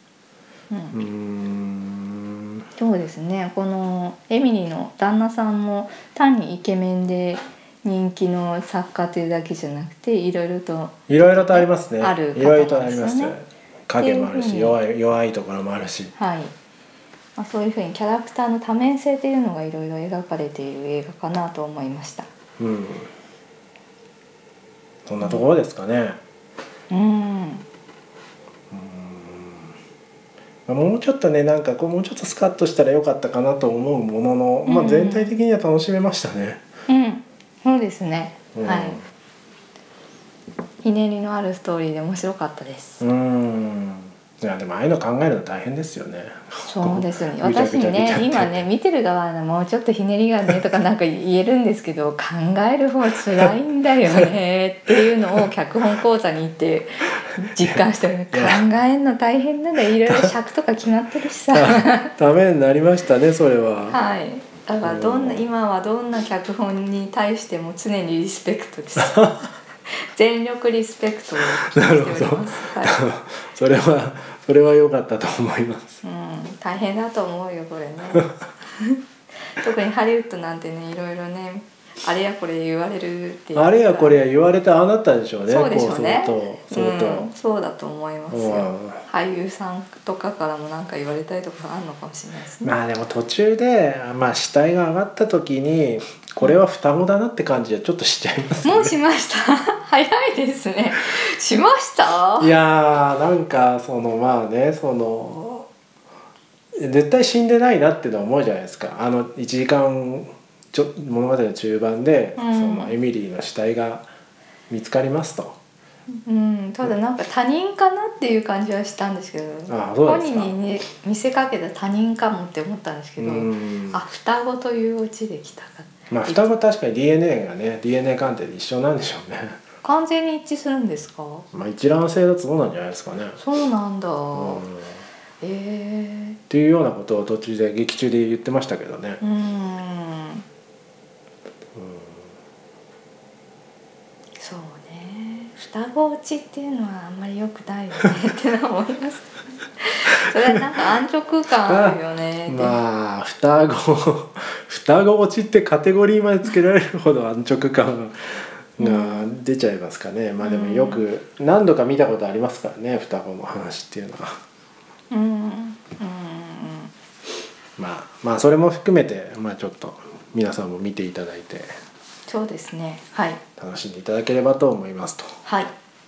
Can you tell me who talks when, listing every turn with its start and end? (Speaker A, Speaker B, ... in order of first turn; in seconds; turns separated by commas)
Speaker A: 0.7-1.0, Speaker B: 0.9-2.6, Speaker A: 2.8-13.3, Speaker B: 11.1-16.1, Speaker A: 14.0-14.8, Speaker A: 16.1-16.5, Speaker A: 17.4-22.3, Speaker B: 22.6-23.1, Speaker B: 25.1-26.2, Speaker A: 25.2-25.4, Speaker A: 26.9-27.6, Speaker B: 28.7-29.7, Speaker B: 30.7-36.6, Speaker A: 34.6-35.4, Speaker A: 36.9-39.0, Speaker B: 38.5-39.0, Speaker A: 40.8-43.0, Speaker B: 43.0-48.6, Speaker A: 46.6-62.1, Speaker B: 57.4-57.8, Speaker B: 58.3-58.6, Speaker B: 60.0-60.3, Speaker B: 61.5-64.0, Speaker A: 63.9-69.3, Speaker B: 64.8-65.4, Speaker B: 69.0-69.5, Speaker A: 69.9-73.0, Speaker B: 71.4-76.0, Speaker A: 76.0-79.0, Speaker A: 79.5-84.2, Speaker B: 83.5-87.3, Speaker A: 85.5-92.7, Speaker B: 88.3-89.0, Speaker B: 92.6-98.9, Speaker A: 98.6-102.5, Speaker B: 102.4-105.7, Speaker B: 106.8-114.0, Speaker A: 112.4-112.9, Speaker B: 114.7-115.5, Speaker A: 116.1-126.5, Speaker B: 119.7-120.6, Speaker B: 123.2-124.0, Speaker B: 126.1-129.6, Speaker A: 129.8-131.5, Speaker B: 131.5-133.4, Speaker A: 133.4-134.6, Speaker B: 134.3-134.9, Speaker A: 135.4-136.4, Speaker B: 136.5-139.2, Speaker A: 139.2-140.4, Speaker B: 141.7-142.2, Speaker A: 144.4-152.8, Speaker B: 151.6-164.4, Speaker A: 158.8-159.3, Speaker A: 160.4-161.0, Speaker A: 165.1-166.9, Speaker B: 167.8-171.7, Speaker A: 172.3-173.4, Speaker B: 173.6-175.3, Speaker A: 175.4-175.7